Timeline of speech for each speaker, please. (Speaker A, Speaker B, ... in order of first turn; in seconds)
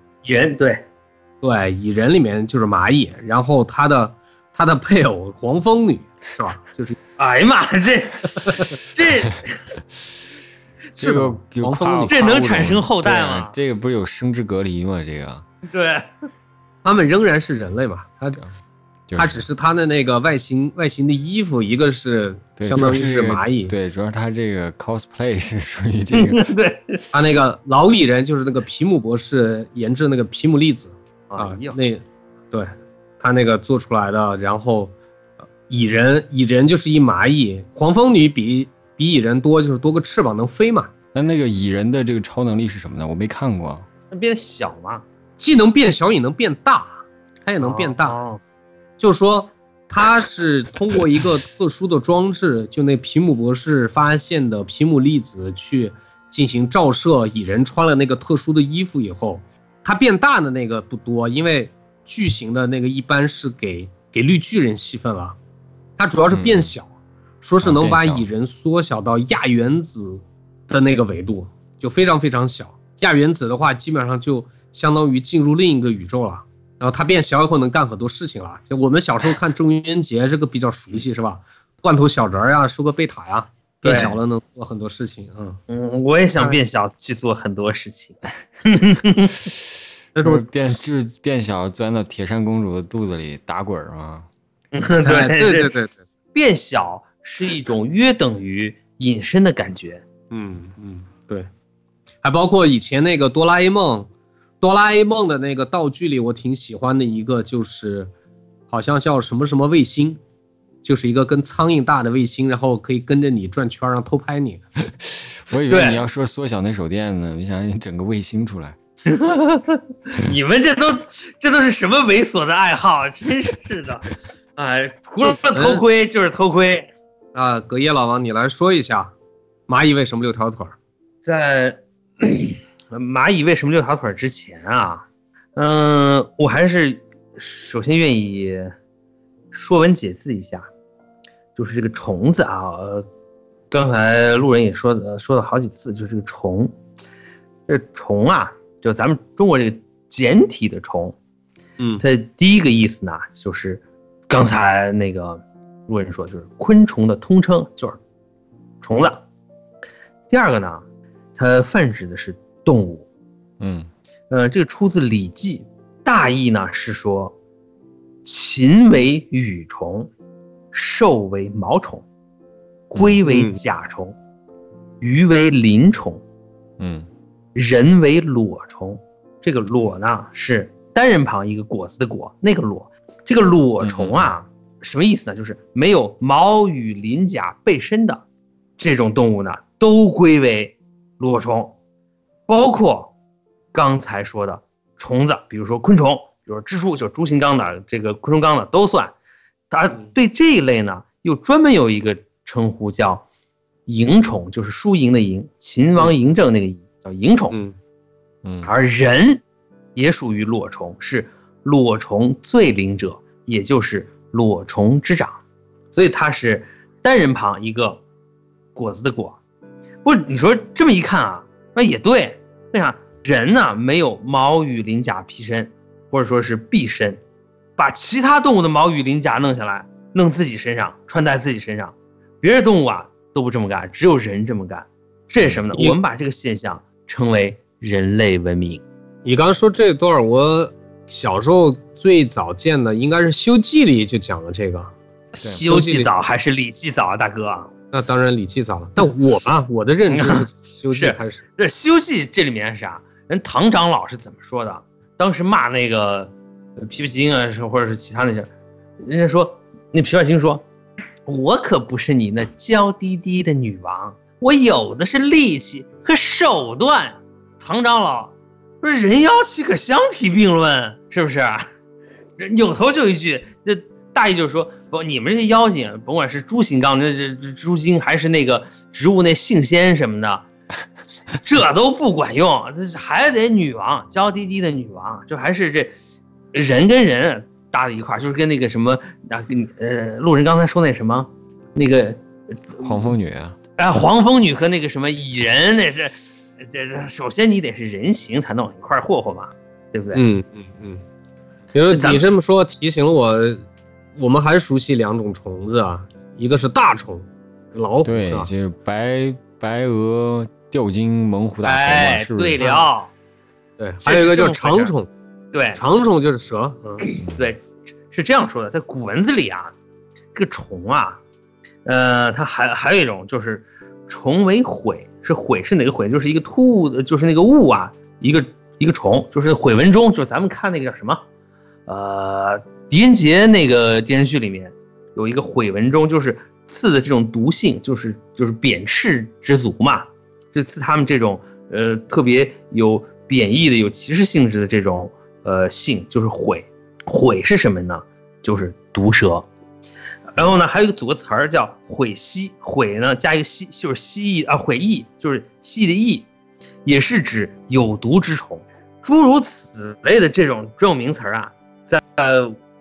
Speaker A: 0.2-0.8, 7.2-9.6, 12.1-13.6, 15.7-16.1, 26.1-27.0, 31.3-31.8, 44.1-45.0, 47.6-48.4, 83.8-84.2, 85.7-89.4, 94.7-95.7, 96.3-100.0, 115.7-116.0, 119.0-126.9, 131.2-138.7, 139.5-140.7, 141.6-143.1, 143.7-146.7, 147.7-151.2, 152.0-158.0, 158.8-159.2, 160.3-160.8, 161.3-163.0, 164.3-167.3, 168.2-170.1, 170.7-172.0, 172.9-174.1, 175.0-176.2, 177.5-188.2, 188.8-191.7, 192.5-193.1, 193.7-199.1, 199.7-203.2, 203.9-207.5, 208.6-209.4, 209.9-215.4, 215.9-218.0, 218.7-219.4, 220.0-227.2, 227.8-238.8, 245.3-247.7, 250.1-258.5, 259.0-260.6, 261.3-271.7, 272.4-280.4, 281.4-285.9, 286.5-292.2, 293.8-300.2, 301.9-302.2, 311.6-313.1, 314.0-314.9, 315.5-315.8, 317.0-319.7, 320.3-321.2, 321.8-331.2, 331.9-349.5, 350.4-356.3, 356.8-362.6
Speaker B: 1.4-7.0, 8.4-8.7, 10.9-12.2, 16.8-18.4, 19.1-23.7, 27.1-34.9, 35.7-40.9, 45.4-48.2, 49.0-65.4, 66.0-66.9, 67.4-85.6, 90.2-90.5, 95.0-96.0, 100.3-101.5, 102.2-104.1, 104.6-108.1, 108.7-110.2, 110.8-114.7, 125.3-125.8, 127.3-129.1, 129.7-130.7, 173.2-173.6, 207.5-207.8, 239.2-244.9, 245.5-246.1, 247.9-251.4, 300.1-301.0, 301.7-303.6, 304.1-308.5, 312.6-312.8, 313.8-315.1, 315.7-317.1
Speaker C: 11.0-15.4, 19.1-19.4, 22.6-26.4, 41.1-43.9, 66.3-66.7, 67.6-68.2, 90.2-94.3, 115.1-118.8, 163.6-163.9, 176.8-177.1, 183.8-184.3, 208.4-208.7, 292.8-293.6, 308.0-312.7